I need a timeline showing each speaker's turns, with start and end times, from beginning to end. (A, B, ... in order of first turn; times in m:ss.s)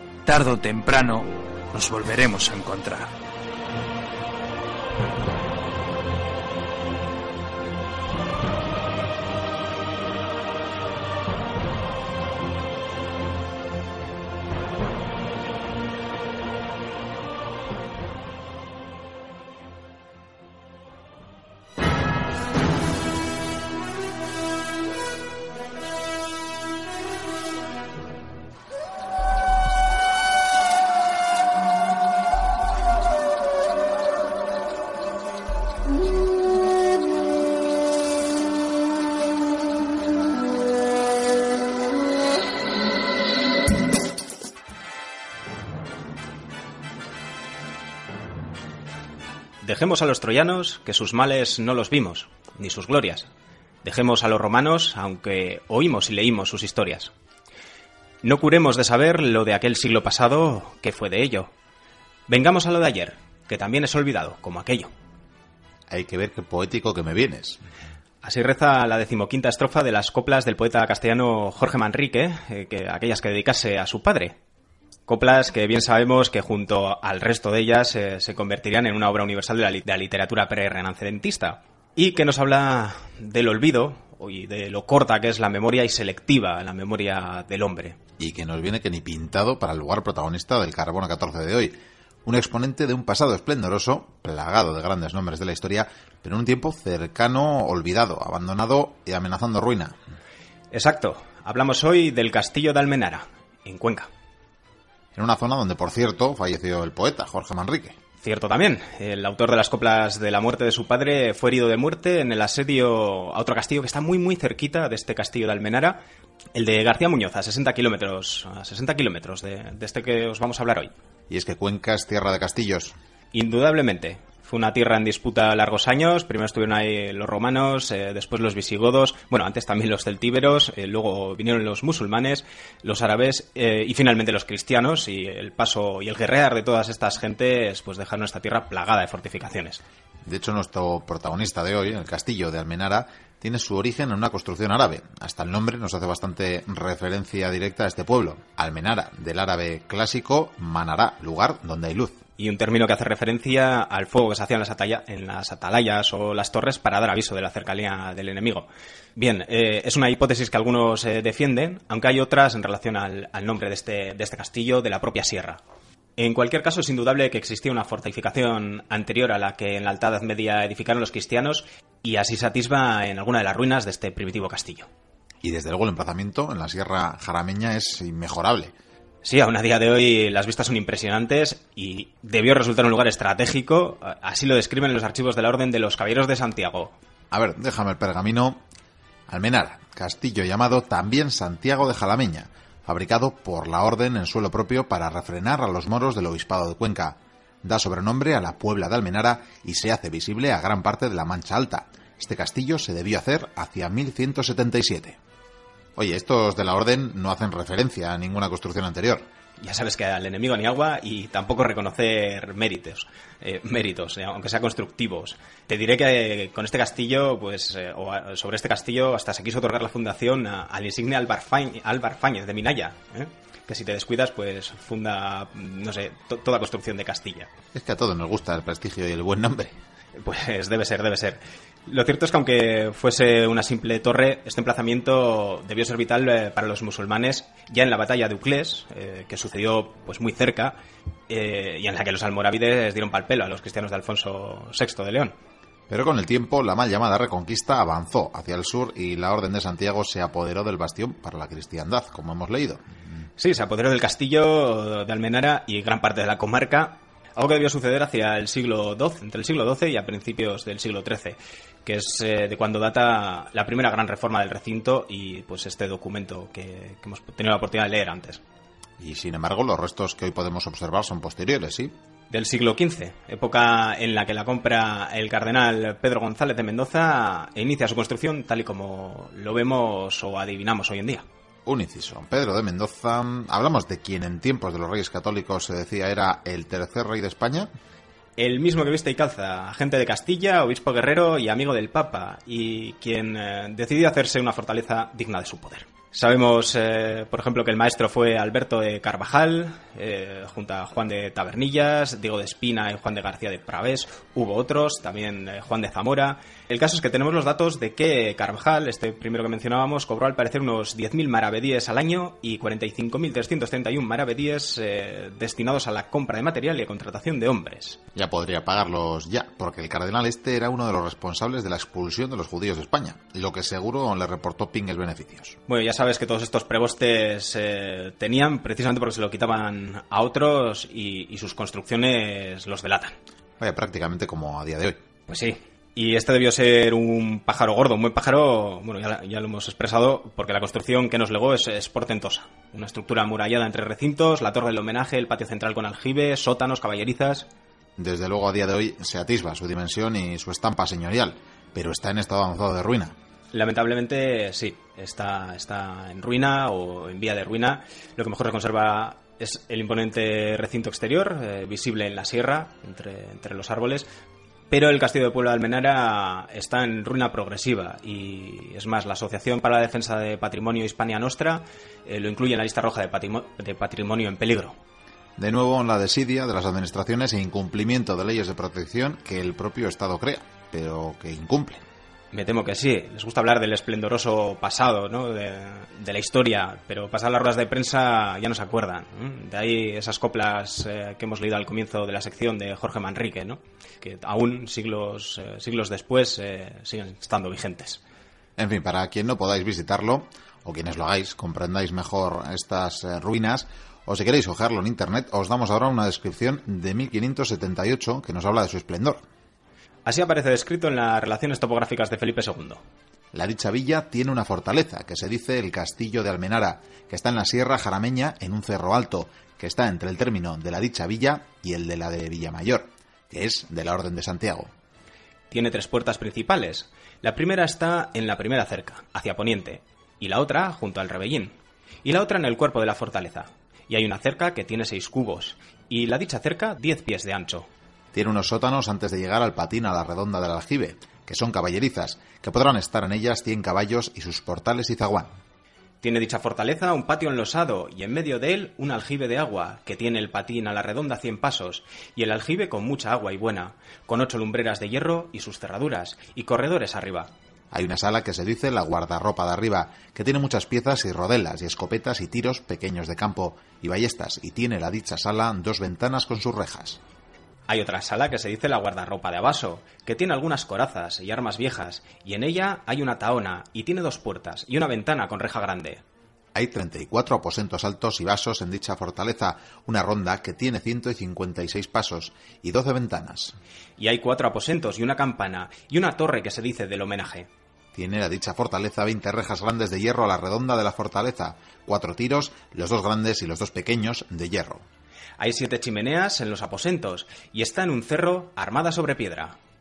0:00.2-0:03.1 A
0:49.6-0:53.3 B
0:53.8-0:57.1 B
0:58.2-1:01.5 B
1:02.3-1:04.9 B
1:05.9-1:07.6 C
1:08.2-1:14.4 B
1:15.1-1:28.0 B
1:28.2-1:39.9 C
1:40.7-1:44.1 B
1:45.1-1:48.0 C
1:48.2-1:56.0 B
1:56.5-2:00.9 B
2:01.3-2:02.9 C
2:03.3-2:19.8 B
2:20.2-2:32.2 C
2:32.4-2:45.6 B
2:46.2-2:54.9 B
2:55.4-2:58.7 C
2:59.2-3:06.9 B
3:07.3-3:08.6 C
3:09.3-3:25.2 C
3:26.0-3:29.2 C
3:29.6-3:47.5 B
3:47.7-3:49.7 C
3:50.1-4:00.8 B
4:01.3-4:05.3 B
4:05.9-4:12.8 C
4:13.4-4:28.4 B
4:29.0-4:31.9 C
4:32.3-4:41.2 B
4:41.6-4:47.7 C
4:48.4-5:18.0 B
5:18.1-5:25.6 C
5:25.7-5:33.2 B
5:33.6-5:35.0 C
5:35.3-5:47.5 B
5:48.0-5:53.1 C
5:53.5-6:04.1 B
6:04.7-6:14.8 B
6:15.4-6:21.8 C
6:22.3-6:38.0 B
6:38.6-6:49.2 C
6:50.0-6:52.8 B
6:53.3-7:04.7 C
7:05.5-7:17.7 B
7:18.1-7:25.3 C
7:26.0-7:37.3 B
7:37.7-7:47.0 C
7:47.7-7:56.0 B
7:56.5-8:03.5 C
8:04.0-8:07.5 B
8:07.9-8:14.8 C
8:15.4-8:19.6 B